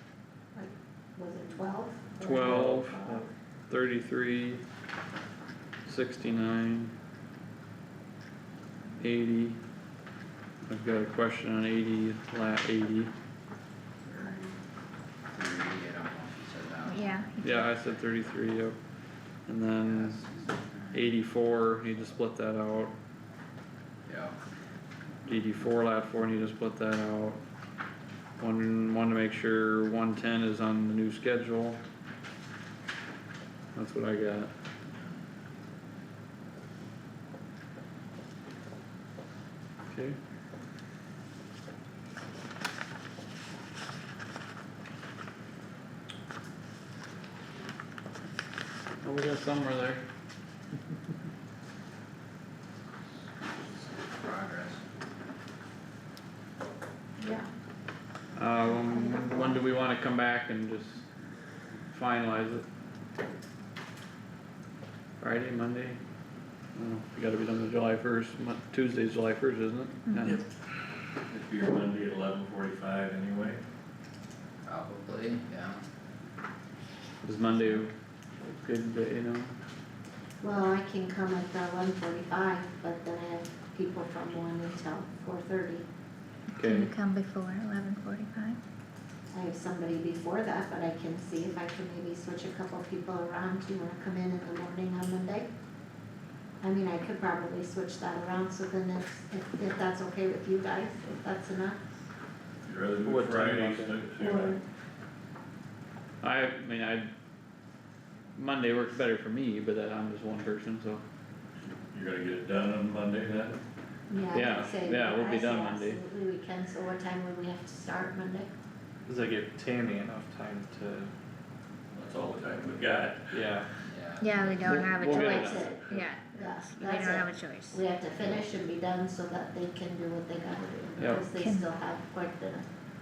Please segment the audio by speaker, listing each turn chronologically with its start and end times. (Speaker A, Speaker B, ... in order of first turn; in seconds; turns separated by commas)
Speaker A: 0.5-3.3, Speaker B: 2.2-4.6, Speaker B: 5.8-6.9, Speaker B: 9.0-9.6, Speaker B: 10.7-13.1, Speaker A: 14.1-14.5, Speaker C: 15.3-17.2, Speaker D: 16.9-17.7, Speaker B: 17.4-18.8, Speaker B: 19.5-20.2, Speaker C: 19.8-21.0, Speaker B: 20.9-22.9, Speaker C: 24.1-24.4, Speaker B: 25.2-27.4, Speaker B: 28.4-31.8, Speaker B: 33.7-34.5, Speaker B: 39.9-40.2, Speaker B: 49.0-50.0, Speaker C: 54.0-54.8, Speaker A: 57.2-57.5, Speaker B: 58.3-61.0, Speaker A: 58.9-59.5, Speaker B: 61.9-62.6, Speaker B: 65.2-66.0, Speaker B: 66.8-70.4, Speaker D: 70.0-70.4, Speaker E: 71.2-73.6, Speaker C: 74.6-75.8, Speaker B: 77.2-79.5, Speaker A: 80.4-85.8, Speaker B: 86.5-86.9, Speaker D: 86.5-88.6, Speaker A: 89.3-95.5, Speaker A: 96.6-101.8, Speaker E: 102.6-104.5, Speaker B: 103.0-104.0, Speaker A: 104.2-104.6, Speaker B: 106.2-107.1, Speaker B: 108.3-111.0, Speaker E: 111.7-113.6, Speaker A: 114.1-118.5, Speaker B: 114.3-116.0, Speaker F: 119.0-121.1, Speaker E: 121.9-123.6, Speaker F: 123.3-123.6, Speaker C: 123.9-124.5, Speaker D: 124.2-127.8, Speaker B: 124.6-126.1, Speaker A: 125.3-125.7, Speaker A: 126.4-132.7, Speaker B: 131.0-131.3, Speaker D: 131.3-131.7